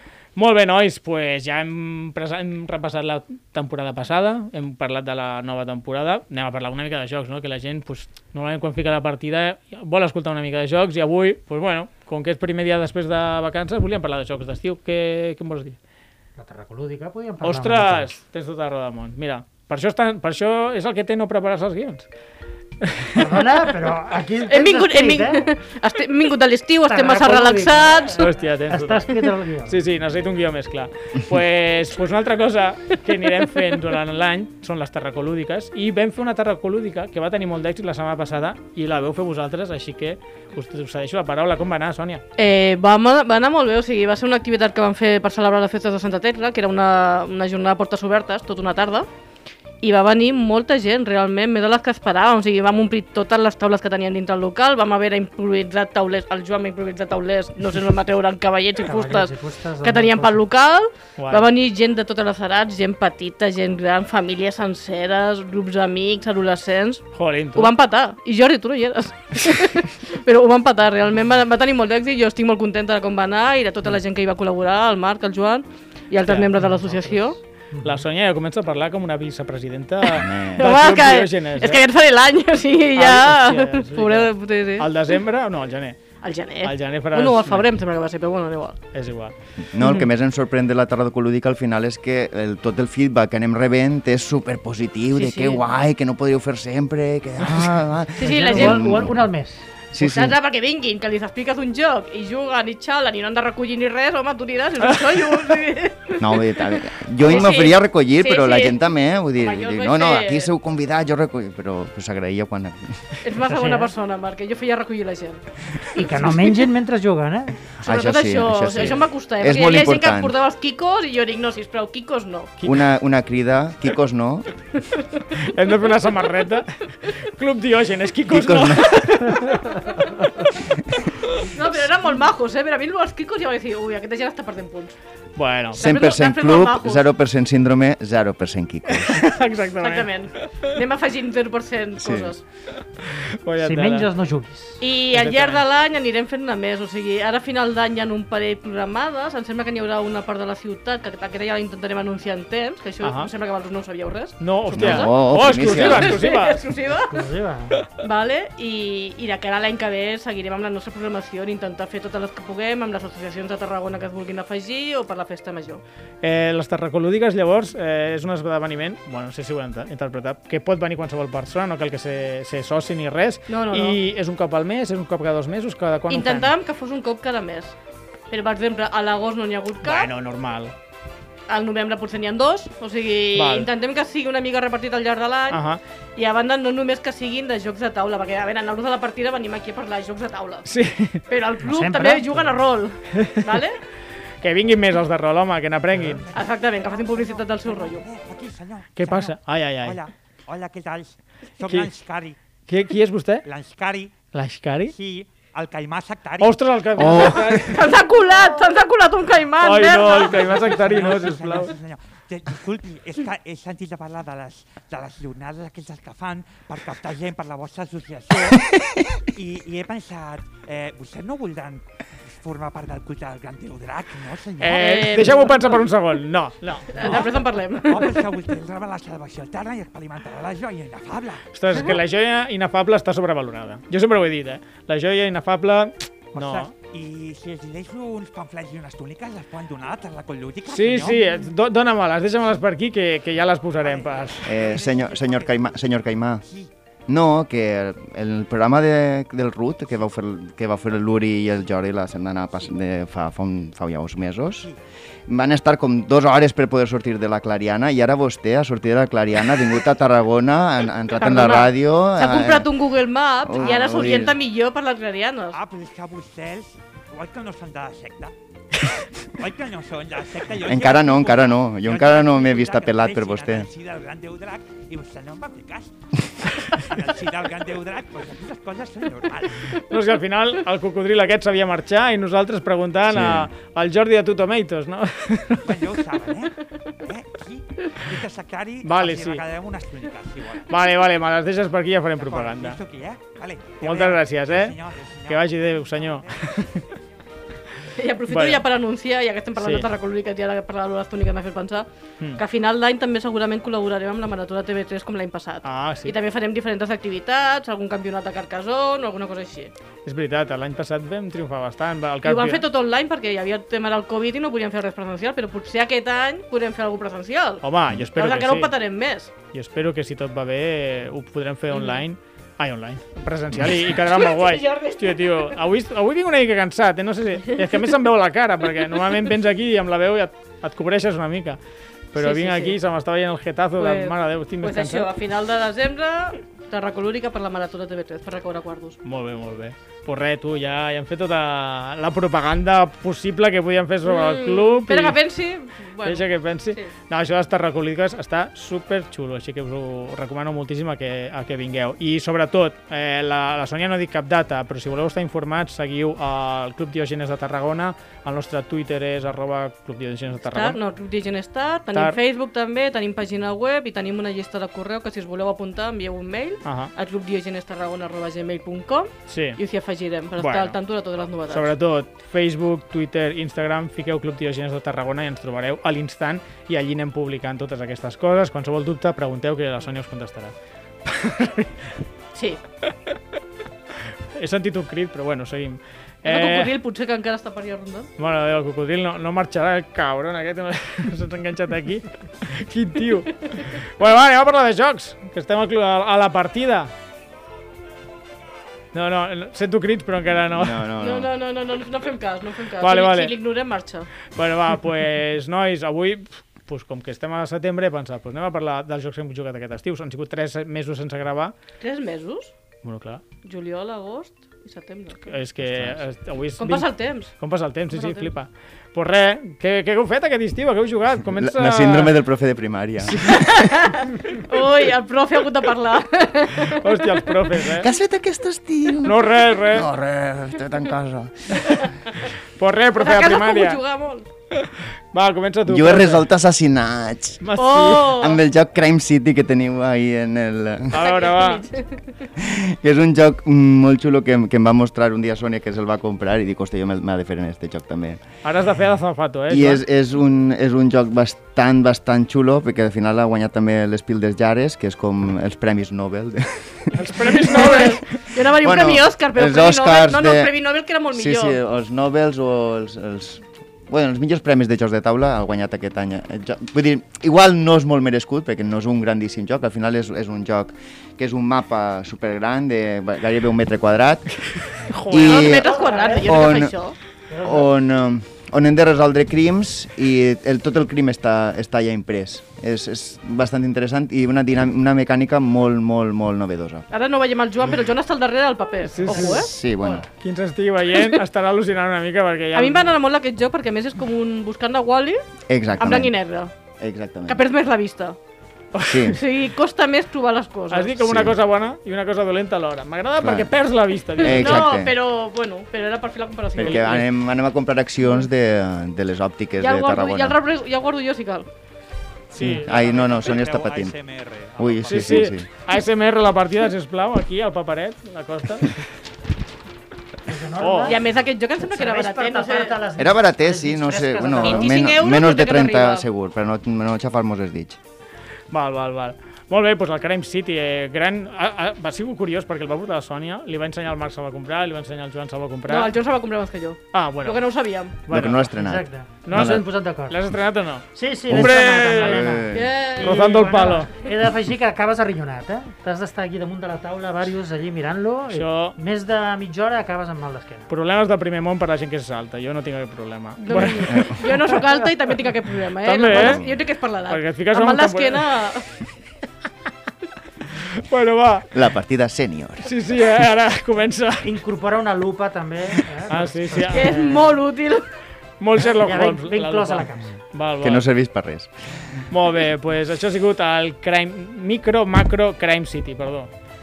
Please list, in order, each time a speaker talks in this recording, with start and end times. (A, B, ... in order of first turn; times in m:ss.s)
0:00.4-0:15.8 A
0:16.4-0:18.1 B
0:17.4-0:22.1 A
0:22.8-0:23.4 A
0:23.2-0:25.5 B
0:24.5-0:28.3 C
0:26.9-0:29.8 B
0:28.2-0:29.1 A
0:29.7-0:42.2 A
0:42.4-0:49.1 C
0:49.8-1:17.4 C
0:58.8-1:00.4 B
1:01.2-1:01.5 A
1:07.1-1:07.7 A
1:16.2-1:17.2 A
1:16.6-1:16.9 B
1:17.7-1:18.0 B
1:17.8-1:21.8 A
1:20.2-1:20.7 D
1:20.6-1:25.1 C
1:23.0-1:27.7 A
1:26.2-1:29.0 C
1:28.9-1:29.4 A
1:29.6-1:39.4 D
1:29.8-1:30.1 C
1:35.1-1:35.6 C
1:38.2-1:39.1 C
1:38.2-1:39.7 B
1:39.9-1:40.4 D
1:40.0-1:48.8 C
1:44.8-1:45.6 A
1:46.2-1:53.2 D
1:49.4-1:50.5 C
1:53.2-1:55.4 C
1:53.5-1:53.9 B
1:55.9-1:57.7 B
1:57.8-2:00.4 D
1:57.8-2:02.5 C
2:02.6-2:04.6 D
2:05.5-2:10.4 A
2:08.3-2:09.3 D
2:11.5-2:15.0 C
2:15.4-2:15.8 A
2:15.7-2:17.1 C
2:15.8-2:19.3 D
2:18.9-2:20.7 A
2:19.8-2:22.4 C
2:22.0-2:22.3 D
2:23.0-2:24.1 A
2:23.6-2:24.8 B
2:24.8-2:37.2 C
2:25.1-2:25.6 A
2:33.0-2:33.3 A
2:34.4-2:36.6 A
2:34.7-2:36.2 D
2:37.1-2:37.9 B
2:38.0-2:45.8 C
2:46.2-2:56.5 A
2:53.5-2:54.0 C
2:56.1-2:57.8 C
2:58.3-3:00.1 C
2:59.8-3:00.7 A
3:01.5-3:05.6 C
3:03.4-3:03.7 A
3:05.5-3:05.8 A
3:06.2-3:10.7 C
3:10.7-3:11.2 A
3:11.3-3:13.8 C
3:11.6-3:12.7 B
3:14.4-3:16.2 A
3:16.0-3:16.2 B
3:16.3-3:22.4 E
3:16.3-3:18.0 C
3:19.0-3:20.0 A
3:22.7-3:23.4 A
3:23.4-3:24.3 E
3:24.3-3:24.9 A
3:24.9-3:27.6 E
3:26.4-3:27.9 A
3:27.0-3:27.6 D
3:27.1-3:30.6 C
3:29.6-3:31.7 A
3:30.1-3:45.3 E
3:44.6-3:47.0 A
3:44.7-3:45.8 C
3:46.9-3:47.3 E
3:47.0-3:47.2 B
3:47.0-3:48.2 C
3:47.8-3:51.5 E
3:51.5-3:56.7 A
3:56.3-4:01.2 E
4:00.7-4:04.5 A
4:03.8-4:06.7 E
4:04.4-4:06.4 D
4:07.1-4:14.7 D
4:15.3-4:22.7 D
4:21.2-4:25.6 C
4:23.4-4:24.4 D
4:23.6-4:24.3 E
4:25.5-4:28.4 E
4:29.2-4:39.8 E
4:30.6-4:33.7 D
4:39.9-4:45.7 A
4:43.1-4:43.5 D
4:45.6-4:50.7 E
4:48.8-4:49.4 A
4:50.7-4:52.8 A
4:52.2-4:56.7 E
4:53.8-4:56.8 A
4:58.0-5:09.7 C
4:58.3-4:58.6 A
4:59.6-4:59.9 A
5:05.6-5:06.2 A
5:10.0-5:12.6 A
5:12.2-5:19.3 C
5:17.6-5:18.8 A
5:19.5-5:31.6 A
5:21.7-5:22.0 C
5:23.9-5:25.6 C
5:32.1-5:35.1 A
5:32.2-5:32.8 C
5:33.8-5:39.0 C
5:39.0-5:45.2 A
5:44.0-5:46.9 C
5:46.0-6:00.8 A
6:00.4-6:11.7 C
6:01.9-6:02.2 A
6:06.6-6:06.9 A
6:09.3-6:09.6 A
6:10.4-6:10.8 A
6:11.5-6:20.5 A
6:21.0-6:21.9 A
6:22.3-6:22.6 C
6:24.4-6:26.7 A
6:26.2-6:28.1 C
6:28.2-6:36.9 A
6:38.9-6:40.8 A
6:40.5-6:41.3 D
6:41.0-6:44.1 C
6:42.8-6:43.4 A
6:44.3-6:51.5 A
6:51.8-6:52.5 C
6:52.8-6:53.2 A
6:53.4-6:55.4 C
6:55.2-7:02.1 A
6:55.6-6:56.0 D
6:56.6-6:58.3 C
7:01.3-7:03.7 D
7:03.3-7:07.4 C
7:06.7-7:07.9 A
7:07.8-7:11.8 D
7:09.0-7:09.9 A
7:12.6-7:13.8 A
7:13.0-7:14.3 C
7:14.6-7:16.2 A
7:15.7-7:17.5 D
7:17.4-7:18.2 A
7:17.6-7:18.4 C
7:18.1-7:21.0 D
7:20.9-7:21.6 A
7:20.9-7:22.3 C
7:22.4-7:28.2 D
7:28.4-7:29.8 A
7:29.5-7:36.9 D
7:36.9-7:38.2 A
7:37.2-7:41.6 C
7:38.4-7:40.5 D
7:41.1-7:55.7 D
7:54.9-7:55.5 A
7:55.2-7:57.0 C
7:55.5-7:56.7 B
7:56.2-7:56.8 D
7:57.3-7:57.7 B
7:57.4-8:06.9 D
8:06.9-8:09.6 C
8:08.9-8:09.4 A
8:09.3-8:10.1 D
8:10.2-8:13.0 A
8:12.5-8:15.2 C
8:15.5-8:16.2 D
8:15.8-8:16.5 C
8:16.8-8:17.4 D
8:17.2-8:18.2 C
8:18.8-8:19.2 A
8:18.9-8:19.2 D
8:19.1-8:20.9 C
8:20.7-8:24.7 A
8:21.0-8:21.4 D
8:23.2-8:23.5 D
8:24.2-8:25.0 D
8:24.2-8:27.0 C
8:26.6-8:30.4 D
8:26.6-8:27.0 A
8:29.6-8:31.5 C
8:32.3-8:34.0 D
8:32.3-8:33.1 A
8:32.7-8:35.4 E
8:34.6-8:35.5 D
8:34.9-8:38.9 A
8:40.3-8:44.8 B
8:40.6-8:41.0 A
8:40.8-8:42.8 C
8:43.0-8:47.8 D
8:44.4-8:46.1 C
8:48.5-8:55.9 A
8:55.7-8:58.0 C
8:56.9-8:58.5 A
8:58.1-8:59.7 D
8:58.5-9:00.2 B
8:59.2-9:02.4 A
9:00.9-9:10.7 B
9:01.3-9:02.9 D
9:02.5-9:03.2 C
9:03.0-9:03.9 A
9:08.3-9:08.8 A
9:10.7-9:14.6 A
9:13.4-9:18.7 C
9:15.8-9:18.4 A
9:16.1-9:16.6 D
9:20.6-9:21.5 A
9:21.5-9:22.8 D
9:22.7-9:24.3 A
9:24.2-9:27.4 B
9:26.1-9:27.0 A
9:26.7-9:27.9 C
9:28.4-9:30.9 A
9:28.6-9:30.2 B
9:30.6-9:32.0 D
9:32.1-9:36.3 A